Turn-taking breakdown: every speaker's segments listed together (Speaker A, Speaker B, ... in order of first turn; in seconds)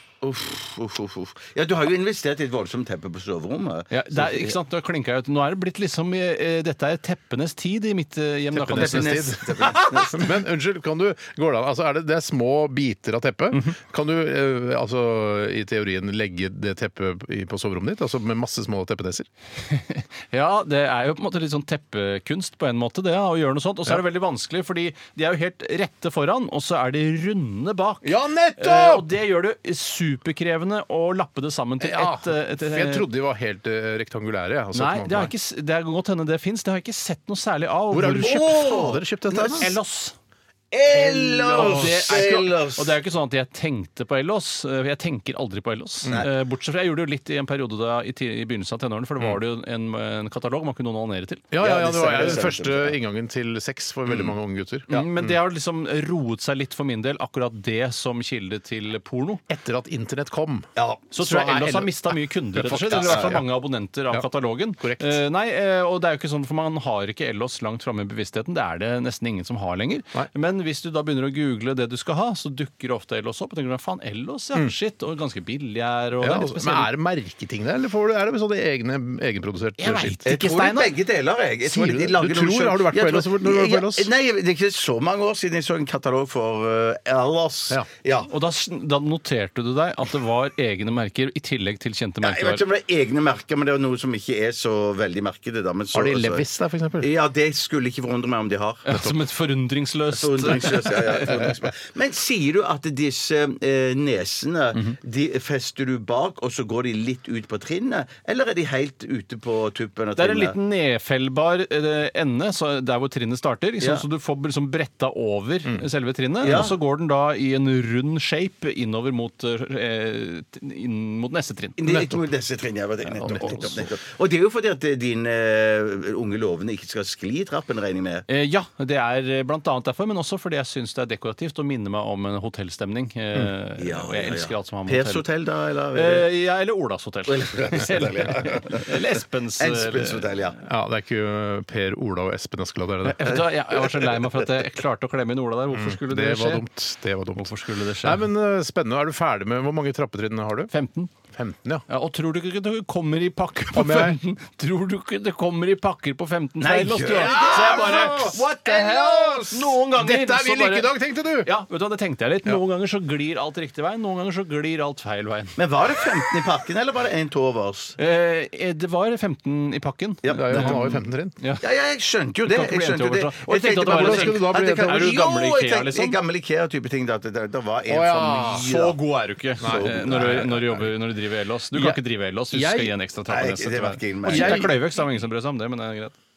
Speaker A: 0.2-4.5, 8.7-10.3, 38.2-39.7, 40.7-42.9, 51.6-53.0, 54.1-54.3, 60.8-61.0, 62.9-63.4, 80.2-88.3, 92.2-96.4, 97.0-99.1, 100.1-110.5, 116.4-116.7, 121.8-128.2, 133.8-136.3, 137.3-139.0, 139.6-140.6, 143.9-144.4, 156.6-159.5, 165.6-167.9, 170.2-171.0, 171.6-179.0, 179.6-180.5, 183.3-184.7
Speaker B: 3.9-10.0, 19.6-33.0, 34.7-38.7, 39.4-40.1, 40.9-51.5, 54.9-59.4, 61.1-76.9, 79.8-80.9, 88.3-92.6, 98.8-101.5, 110.2-121.8, 123.2-123.8, 128.3-135.2, 135.9-140.4, 143.0-146.6, 147.3-148.2, 150.7-151.1, 151.9-165.6, 168.0-171.6, 172.4-176.2, 178.6-186.2
Speaker C: 8.5-19.3, 28.0-29.1, 31.8-35.3, 37.9-39.7, 41.4-42.2, 51.5-55.4, 59.5-63.5, 64.8-65.2, 76.2-80.2, 81.6-84.1, 95.9-97.1, 121.9-122.2, 123.2-123.8, 140.6-143.4, 145.7-150.7, 151.3-151.8, 153.7-154.2, 157.1-161.5, 170.3-171.3, 173.8-175.2, 177.9-178.7, 179.6-180.9, 181.7-182.9, 184.2-184.8